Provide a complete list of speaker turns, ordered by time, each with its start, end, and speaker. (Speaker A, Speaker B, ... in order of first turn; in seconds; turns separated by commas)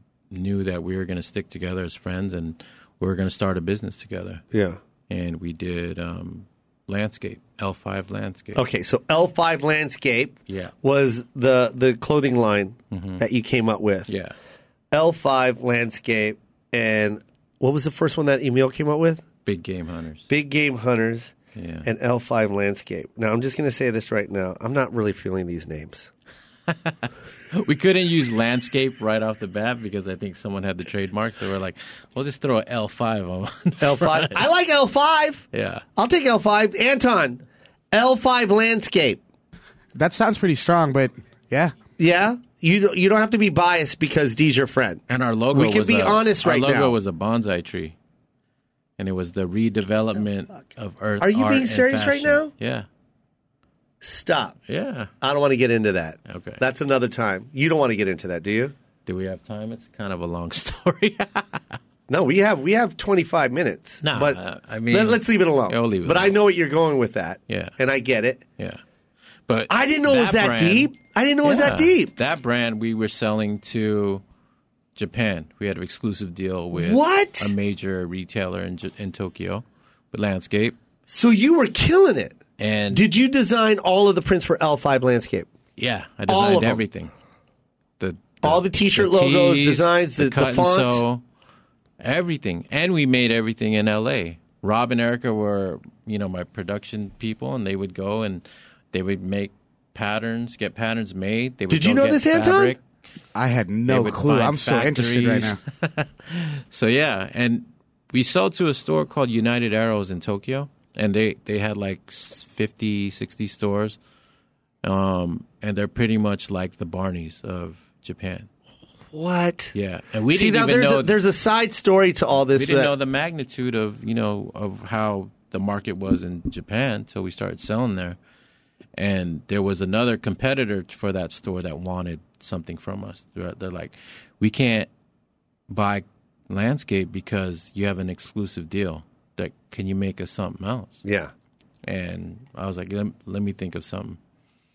Speaker A: 0.3-4.4, Speaker B: 4.5-4.8, Speaker A: 5.1-8.6, Speaker B: 8.6-14.1, Speaker A: 10.5-10.7, Speaker A: 12.9-13.2, Speaker A: 14.1-14.3, Speaker B: 14.9-19.2, Speaker A: 19.4-20.3, Speaker B: 20.3-26.1, Speaker A: 21.6-21.9, Speaker A: 26.7-34.4, Speaker B: 33.8-39.2, Speaker A: 35.5-35.8, Speaker C: 40.0-41.7, Speaker B: 42.0-47.0, Speaker A: 45.1-48.0, Speaker A: 49.0-52.9, Speaker B: 51.2-52.5, Speaker B: 54.0-54.6, Speaker A: 54.7-55.1, Speaker B: 55.2-58.7, Speaker A: 56.3-56.6, Speaker A: 59.1-61.8, Speaker B: 62.1-64.4, Speaker A: 64.0-66.4, Speaker B: 64.9-68.4, Speaker A: 67.5-67.8, Speaker A: 69.5-74.2, Speaker B: 69.7-72.1, Speaker A: 75.0-80.8, Speaker B: 76.7-77.5, Speaker B: 81.1-82.4, Speaker A: 82.6-83.0, Speaker B: 82.9-85.5, Speaker A: 85.8-87.1, Speaker B: 86.3-86.8, Speaker A: 88.0-91.2, Speaker B: 88.4-91.0, Speaker A: 92.0-102.8, Speaker B: 101.7-102.8, Speaker C: 103.3-105.6, Speaker A: 103.9-114.0, Speaker A: 114.8-118.5, Speaker B: 119.1-119.7, Speaker A: 119.7-121.2, Speaker B: 120.3-122.9, Speaker A: 122.5-128.2, Speaker A: 129.0-134.9, Speaker A: 135.7-141.0, Speaker B: 141.0-141.3, Speaker A: 141.8-144.2